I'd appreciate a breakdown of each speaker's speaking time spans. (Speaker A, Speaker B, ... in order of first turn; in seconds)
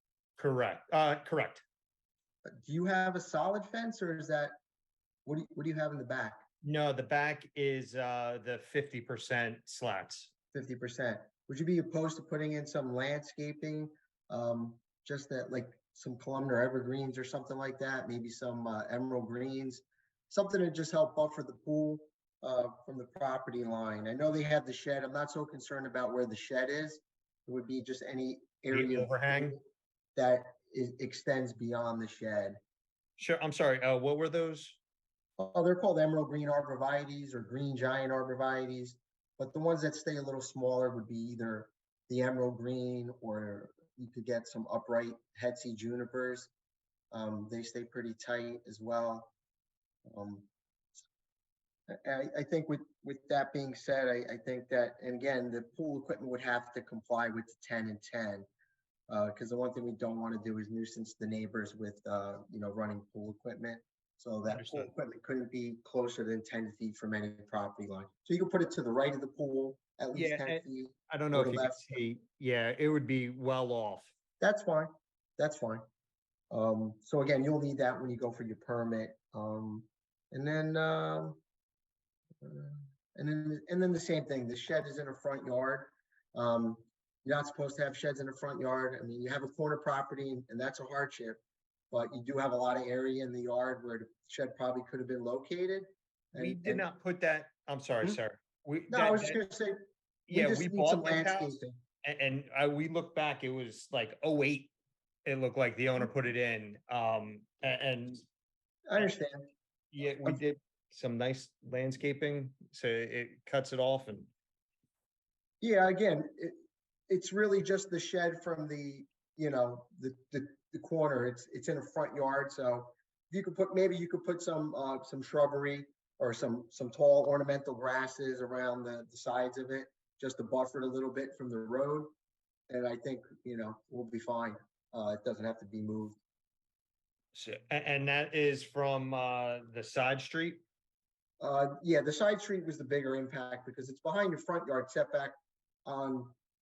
Speaker A: 0.4-1.6, 6.6-10.3, 28.7-29.6, 33.2-34.8, 64.5-64.9, 70.1-74.1, 96.3-99.4, 100.3-104.7, 105.2-108.2, 109.9-114.3, 137.3-140.6
Speaker B: 2.5-4.5, 5.2-6.4, 10.5-29.6, 30.1-32.6, 35.4-46.5, 47.1-49.3, 50.0-50.5, 51.9-58.5, 59.1-71.9, 74.4-75.8, 76.5-81.4, 82.4-91.4, 91.9-96.8, 98.9-99.8, 100.3-101.8, 108.9-109.5, 115.6-116.5, 117.1-132.1, 132.7-136.2, 141.4-145.3, 145.8-146.3